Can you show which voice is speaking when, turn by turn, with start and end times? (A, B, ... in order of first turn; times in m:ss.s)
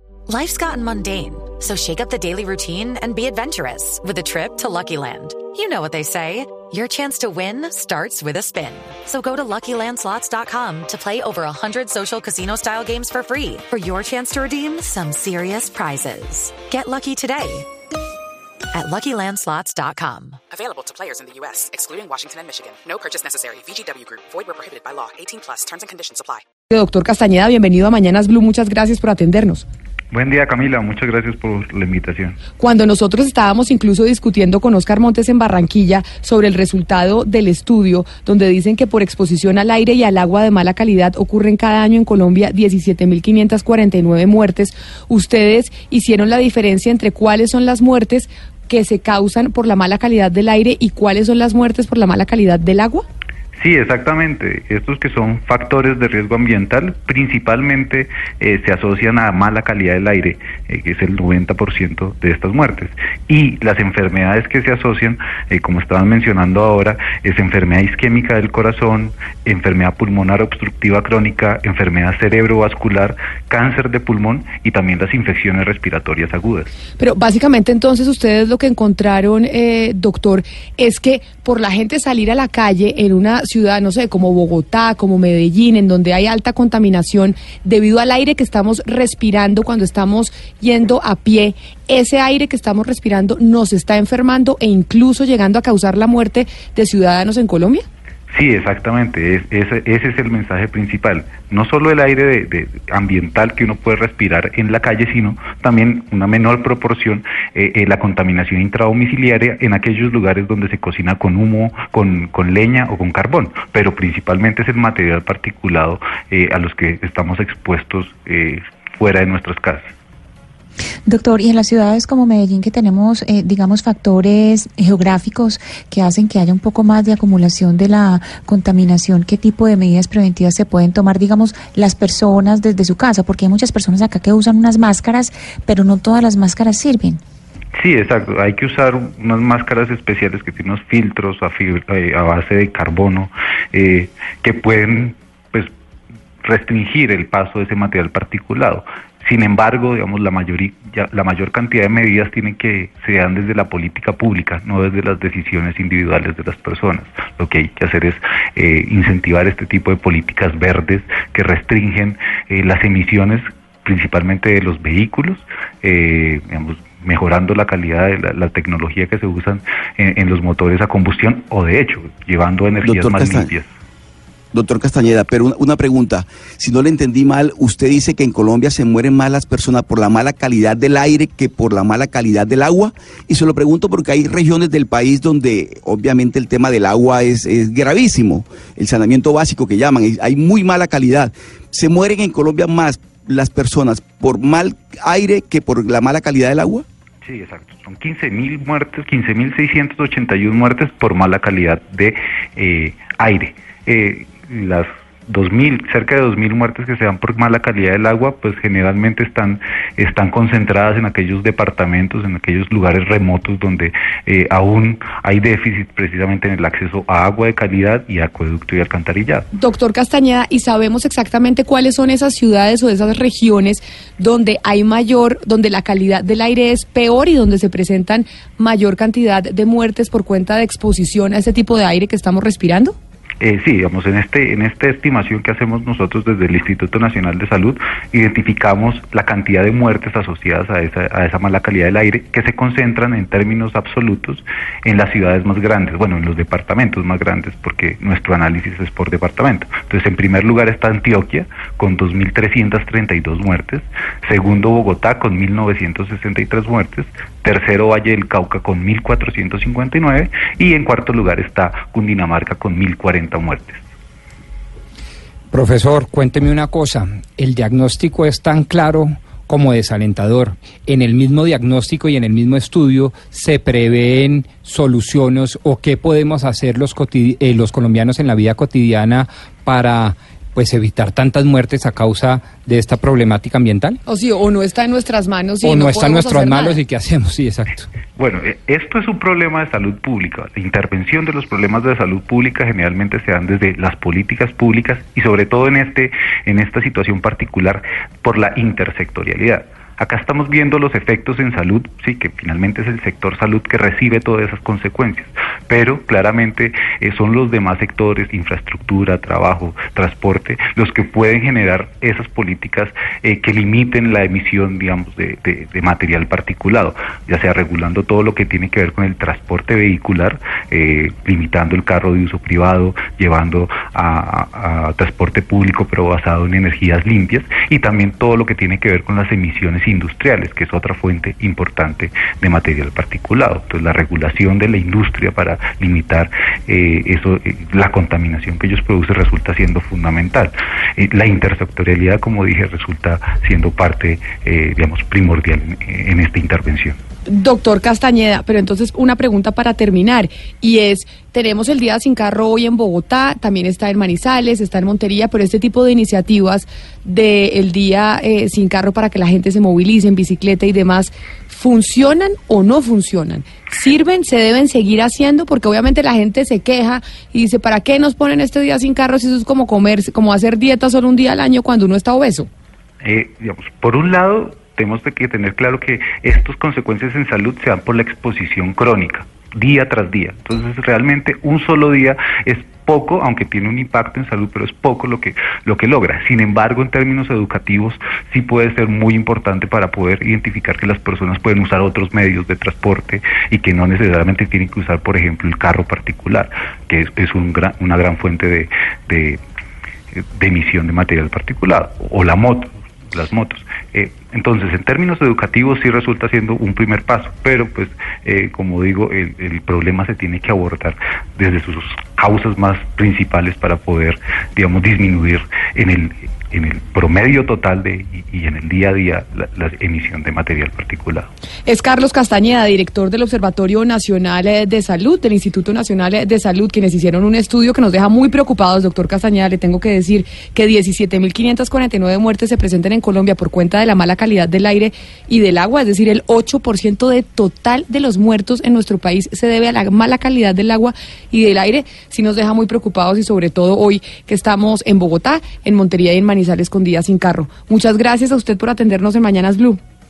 0:00.3-0:17.7 A
0:18.7-0:20.4 A
0:20.5-0:26.4 B
0:26.7-0:29.7 C
0:30.1-0:32.4 D
0:32.6-0:53.0 C
0:53.6-1:16.7 D
1:17.0-1:37.8 C
1:38.3-1:59.9 D
2:01.0-2:17.2 E
2:17.8-2:25.7 D
2:26.4-2:53.7 D
2:52.8-2:53.5 F
2:54.5-3:16.8 F
3:17.2-3:39.5 D
3:39.5-3:53.0 C
3:53.4-4:23.8 D
4:25.5-4:44.0 G
4:44.0-4:46.8 C
4:45.6-4:47.9 G
4:48.2-5:47.0 D
5:47.2-6:12.5 C
6:13.0-6:39.4 D
6:40.1-7:01.3 D
7:01.6-7:29.8 C